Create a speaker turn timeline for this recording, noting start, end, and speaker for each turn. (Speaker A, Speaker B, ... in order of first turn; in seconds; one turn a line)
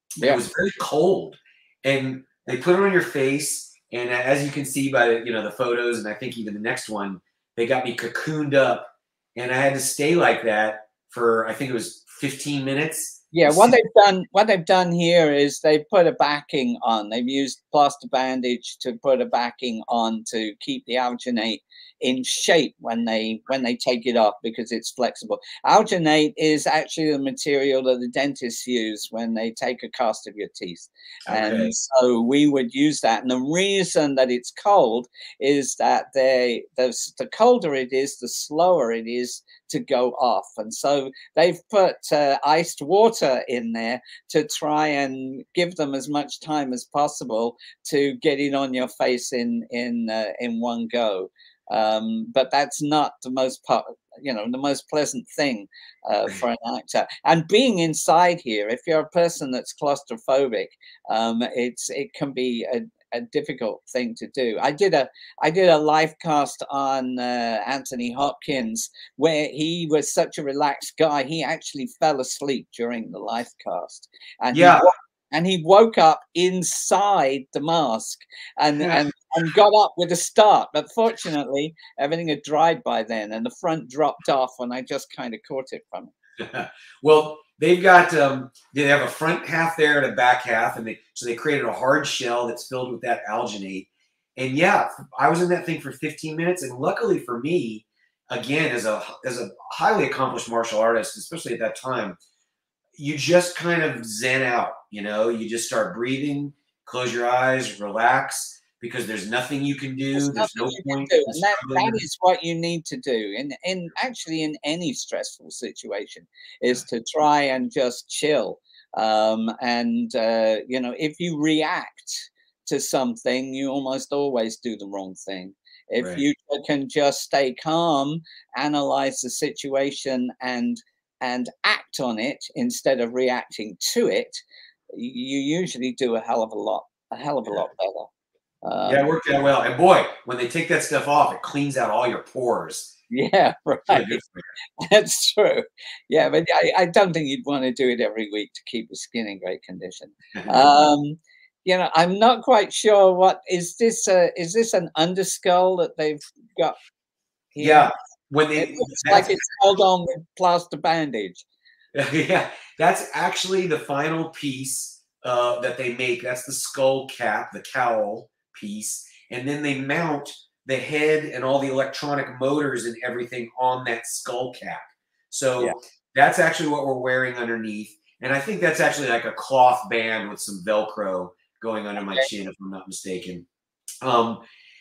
Speaker A: 0.2-13.8
Speaker B: 13.3-86.1
Speaker A: 31.3-31.7
Speaker A: 74.5-74.8
Speaker A: 86.4-102.2
Speaker A: 103.0-112.0
Speaker B: 110.1-138.1
Speaker A: 126.0-126.2
Speaker B: 138.6-139.1
Speaker A: 138.9-142.9
Speaker B: 143.1-144.2
Speaker A: 143.9-144.4
Speaker B: 144.8-156.8
Speaker B: 157.5-157.9
Speaker A: 157.6-159.3
Speaker B: 158.6-161.4
Speaker A: 161.9-183.4
Speaker A: 184.0-184.4